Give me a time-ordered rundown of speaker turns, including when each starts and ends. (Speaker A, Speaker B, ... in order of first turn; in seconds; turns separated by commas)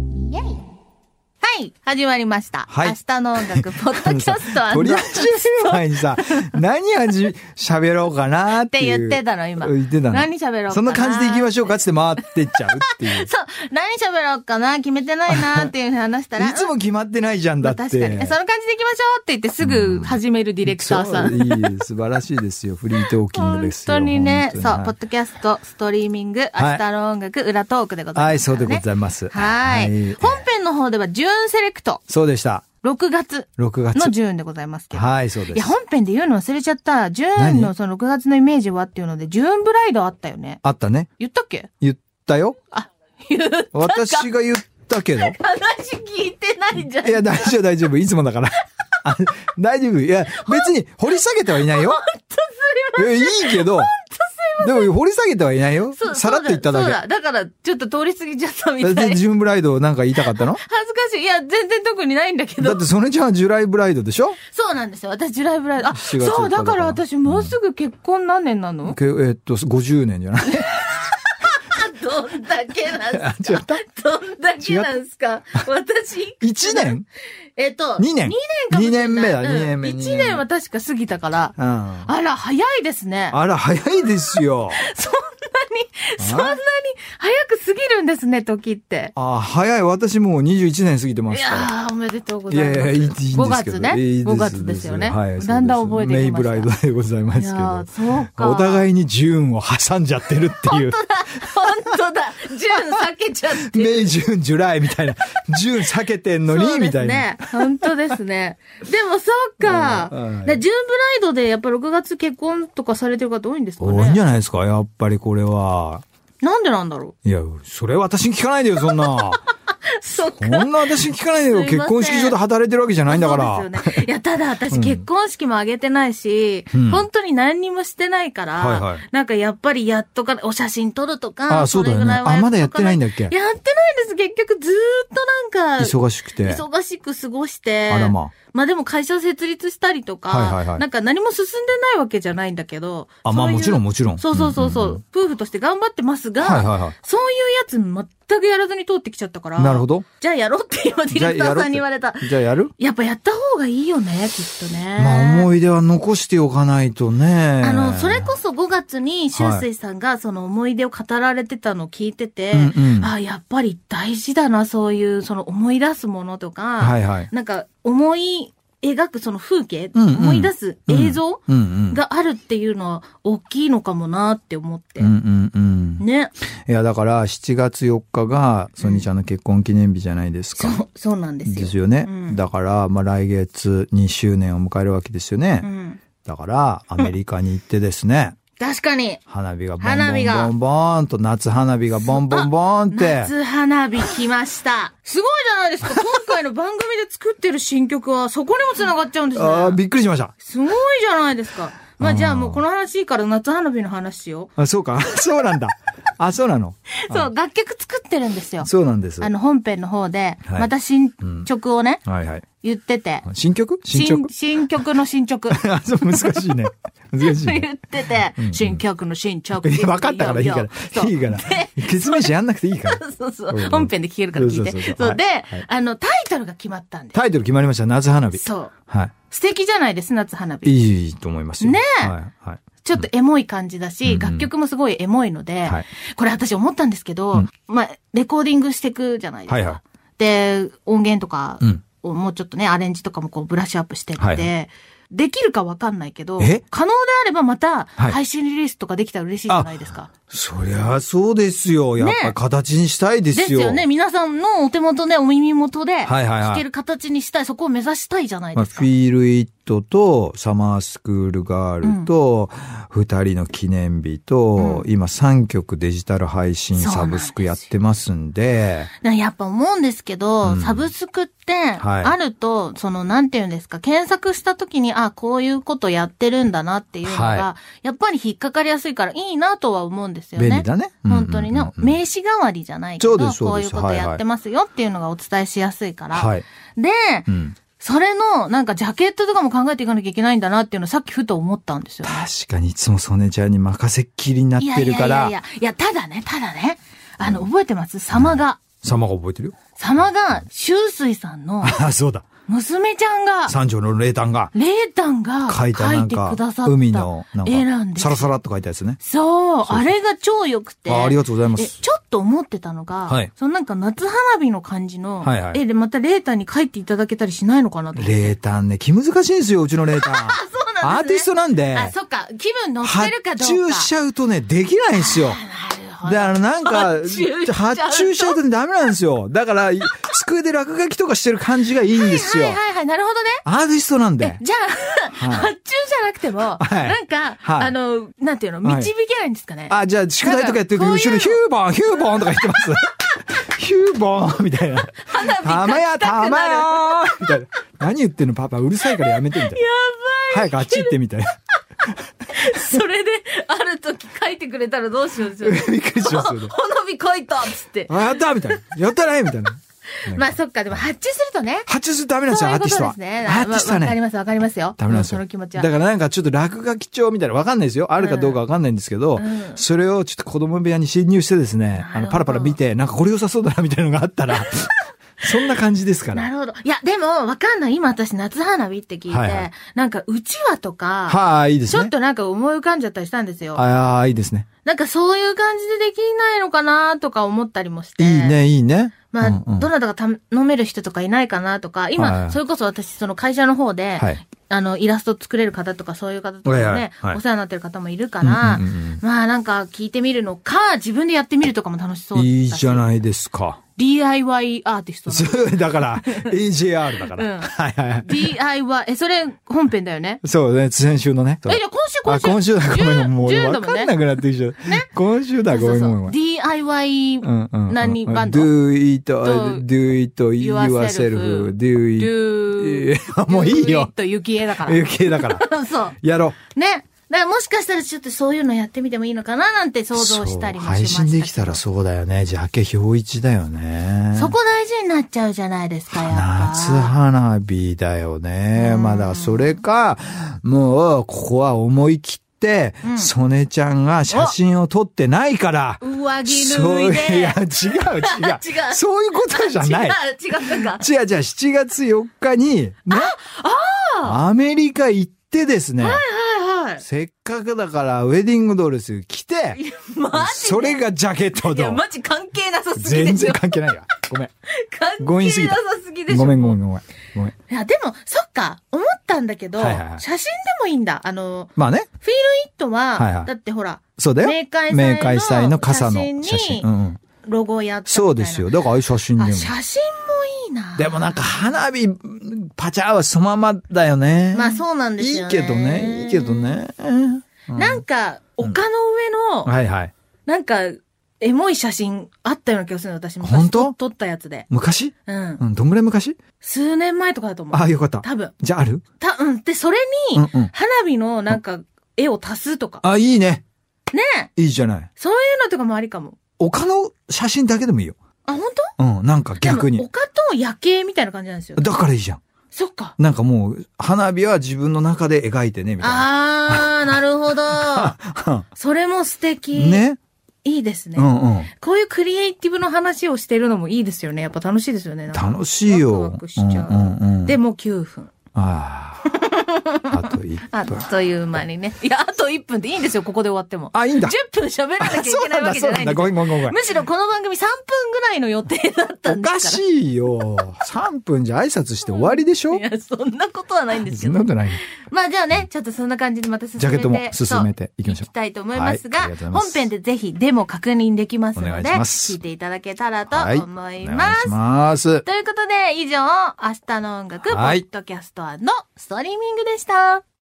Speaker A: 1.4-6.2, Speaker B: 2.7-13.3, Speaker A: 8.6-11.7, Speaker A: 12.6-16.7, Speaker B: 15.3-15.7, Speaker B: 16.4-18.4, Speaker A: 17.6-21.7, Speaker B: 19.6-24.9, Speaker A: 23.0-32.0, Speaker B: 26.6-26.8, Speaker B: 28.1-30.4, Speaker B: 32.1-32.7, Speaker A: 32.8-40.6, Speaker B: 33.6-34.1, Speaker B: 34.9-35.7, Speaker B: 37.4-37.7, Speaker B: 40.6-41.1, Speaker A: 41.2-41.7, Speaker B: 41.8-42.6, Speaker A: 42.7-44.3, Speaker B: 43.7-45.4, Speaker A: 45.2-47.6, Speaker B: 46.9-52.0, Speaker A: 50.5-50.7, Speaker A: 51.5-54.9, Speaker B: 53.0-53.9, Speaker B: 54.6-57.0, Speaker A: 55.9-59.2, Speaker B: 58.8-60.6, Speaker A: 60.1-62.8, Speaker B: 62.6-64.4, Speaker A: 64.5-69.0, Speaker B: 65.8-67.5, Speaker B: 68.8-70.9, Speaker A: 70.5-77.0, Speaker B: 73.1-73.8, Speaker B: 74.6-74.9, Speaker B: 76.4-77.1, Speaker A: 77.6-83.4, Speaker B: 78.0-80.4, Speaker B: 81.6-82.1, Speaker B: 83.3-84.8, Speaker A: 84.3-89.1, Speaker B: 86.2-86.6, Speaker B: 89.2-91.7, Speaker A: 91.3-96.7, Speaker B: 92.5-101.9, Speaker A: 97.4-98.9, Speaker A: 100.4-104.2, Speaker B: 103.5-107.9, Speaker A: 106.5-114.2, Speaker B: 109.6-110.6, Speaker B: 113.8-116.0, Speaker A: 116.4-117.2, Speaker B: 117.2-119.4, Speaker A: 118.8-122.4, Speaker B: 120.4-124.0, Speaker A: 123.1-155.5, Speaker B: 124.7-125.0, Speaker B: 126.7-127.0, Speaker B: 128.6-129.0, Speaker B: 131.5-133.3, Speaker B: 135.8-136.6, Speaker B: 137.9-138.3, Speaker B: 140.3-140.8, Speaker B: 143.2-145.0, Speaker B: 146.4-146.9, Speaker B: 149.6-150.1, Speaker B: 151.1-152.7, Speaker B: 155.0-158.3, Speaker A: 157.6-175.1, Speaker B: 159.3-159.7, Speaker B: 162.5-163.1, Speaker B: 166.8-167.3, Speaker B: 169.9-172.0, Speaker B: 175.0-176.0, Speaker A: 176.0-176.3, Speaker B: 176.7-180.8, Speaker A: 178.8-179.1, Speaker A: 180.6-182.4, Speaker B: 181.4-185.7, Speaker A: 185.6-186.0, Speaker B: 186.2-188.4, Speaker A: 188.6-189.2, Speaker B: 189.3-193.3, Speaker A: 189.8-190.5, Speaker A: 192.1-199.8, Speaker B: 199.3-200.3, Speaker A: 200.4-204.5, Speaker B: 202.0-202.6, Speaker B: 204.6-207.3, Speaker A: 207.1-208.7, Speaker B: 208.6-209.3, Speaker A: 209.2-212.0, Speaker B: 211.2-211.5, Speaker B: 212.1-212.4, Speaker A: 212.6-213.3, Speaker B: 213.2-214.3, Speaker A: 213.9-215.6, Speaker B: 215.5-218.8, Speaker A: 217.2-227.2, Speaker B: 219.6-225.7, Speaker B: 227.1-229.1, Speaker A: 228.3-228.7, Speaker A: 229.3-230.8, Speaker B: 230.7-233.1, Speaker A: 231.6-232.1, Speaker A: 232.8-250.1, Speaker B: 234.0-234.5, Speaker B: 239.5-239.8, Speaker B: 244.2-244.5, Speaker B: 250.3-253.8, Speaker A: 252.0-252.3, Speaker A: 253.3-258.9, Speaker B: 256.1-256.6, Speaker B: 258.6-268.9, Speaker A: 261.8-262.1, Speaker A: 264.6-264.9, Speaker A: 266.7-267.6, Speaker A: 269.0-287.3, Speaker B: 270.4-270.9, Speaker B: 271.8-272.1, Speaker B: 277.0-277.5, Speaker B: 280.4-282.0, Speaker B: 283.0-284.2, Speaker B: 286.1-286.4, Speaker B: 287.3-287.6, Speaker A: 287.8-292.3, Speaker B: 292.0-295.3, Speaker A: 294.6-298.6, Speaker B: 298.1-299.6, Speaker A: 299.8-301.8, Speaker B: 301.6-302.3, Speaker A: 302.5-303.6, Speaker B: 303.5-304.5, Speaker A: 304.5-308.3, Speaker B: 305.5-309.0, Speaker A: 309.0-318.4, Speaker B: 309.6-309.9, Speaker B: 310.9-311.8, Speaker B: 315.2-315.6, Speaker B: 317.9-321.9, Speaker A: 319.9-323.9, Speaker B: 322.8-325.4, Speaker A: 324.9-328.4, Speaker B: 326.0-332.6, Speaker A: 331.9-333.4, Speaker B: 333.4-334.4, Speaker A: 334.2-342.8, Speaker B: 335.1-335.5, Speaker B: 336.6-337.7, Speaker B: 338.6-338.9, Speaker B: 339.7-349.6, Speaker A: 345.0-347.4, Speaker A: 348.9-350.9, Speaker B: 350.3-351.3, Speaker B: 351.9-352.8, Speaker A: 352.3-358.6, Speaker B: 355.4-356.5, Speaker B: 357.9-360.8, Speaker A: 360.1-361.7, Speaker B: 361.7-364.0, Speaker A: 362.3-365.7, Speaker B: 364.8-376.3, Speaker A: 368.0-368.4, Speaker A: 369.2-369.6, Speaker A: 371.8-372.6, Speaker A: 374.3-374.7, Speaker A: 376.1-383.6, Speaker B: 379.1-379.5, Speaker B: 381.1-381.9, Speaker B: 383.6-384.5, Speaker A: 384.6-388.4, Speaker B: 388.0-389.7, Speaker A: 389.1-402.9, Speaker B: 392.0-392.4, Speaker B: 396.5-397.2, Speaker B: 398.2-399.0, Speaker B: 402.1-403.6, Speaker A: 403.8-406.4, Speaker B: 405.1-408.3, Speaker A: 407.0-410.2, Speaker B: 410.2-416.2, Speaker A: 411.5-414.0, Speaker A: 414.6-414.9, Speaker A: 415.5-418.6, Speaker B: 417.2-423.9, Speaker A: 419.2-419.7, Speaker A: 420.4-426.0, Speaker B: 424.6-425.4, Speaker B: 426.0-426.4, Speaker A: 426.5-431.6, Speaker B: 429.9-434.4, Speaker A: 434.1-436.9, Speaker B: 435.9-453.1, Speaker A: 438.6-439.6, Speaker A: 442.8-443.1, Speaker A: 444.1-444.4, Speaker A: 445.8-450.8, Speaker A: 452.9-454.2, Speaker B: 454.0-456.0, Speaker A: 455.8-456.8, Speaker B: 456.8-459.6, Speaker A: 459.5-460.8, Speaker B: 460.1-461.8, Speaker A: 461.4-463.7, Speaker B: 462.8-464.3, Speaker A: 464.5-466.6, Speaker B: 465.0-467.3, Speaker A: 467.5-471.5, Speaker B: 469.6-470.0, Speaker B: 471.6-471.9, Speaker A: 472.0-476.7, Speaker B: 473.0-473.3, Speaker B: 474.0-477.0, Speaker A: 477.2-478.5, Speaker B: 477.9-479.5, Speaker A: 479.2-481.2, Speaker B: 480.8-487.8, Speaker A: 484.3-486.6, Speaker A: 487.5-489.5, Speaker B: 489.5-489.9, Speaker A: 490.3-494.5, Speaker B: 493.2-493.8, Speaker B: 494.5-496.2, Speaker A: 495.1-495.4, Speaker A: 496.4-498.3, Speaker B: 497.5-498.8, Speaker A: 499.0-502.8, Speaker B: 500.1-500.5, Speaker B: 502.8-503.4, Speaker A: 503.9-504.3, Speaker B: 504.4-504.9, Speaker A: 505.0-506.2, Speaker B: 506.4-508.0, Speaker A: 508.3-508.7, Speaker B: 508.8-509.9, Speaker A: 509.4-511.7, Speaker B: 511.6-512.2, Speaker A: 512.5-513.0, Speaker B: 513.0-516.9, Speaker A: 515.8-518.0, Speaker B: 517.5-518.5, Speaker A: 518.6-519.8, Speaker B: 519.5-520.0, Speaker A: 520.4-528.1, Speaker B: 521.0-521.5, Speaker B: 525.1-527.4, Speaker B: 528.3-529.2, Speaker A: 529.1-539.6, Speaker B: 529.9-530.9, Speaker B: 533.7-534.2, Speaker B: 534.8-536.6, Speaker B: 539.1-542.6, Speaker A: 541.9-554.4, Speaker B: 543.8-544.6, Speaker B: 546.6-549.6, Speaker B: 551.4-552.2, Speaker B: 553.1-555.0, Speaker A: 555.0-560.0, Speaker B: 557.3-557.7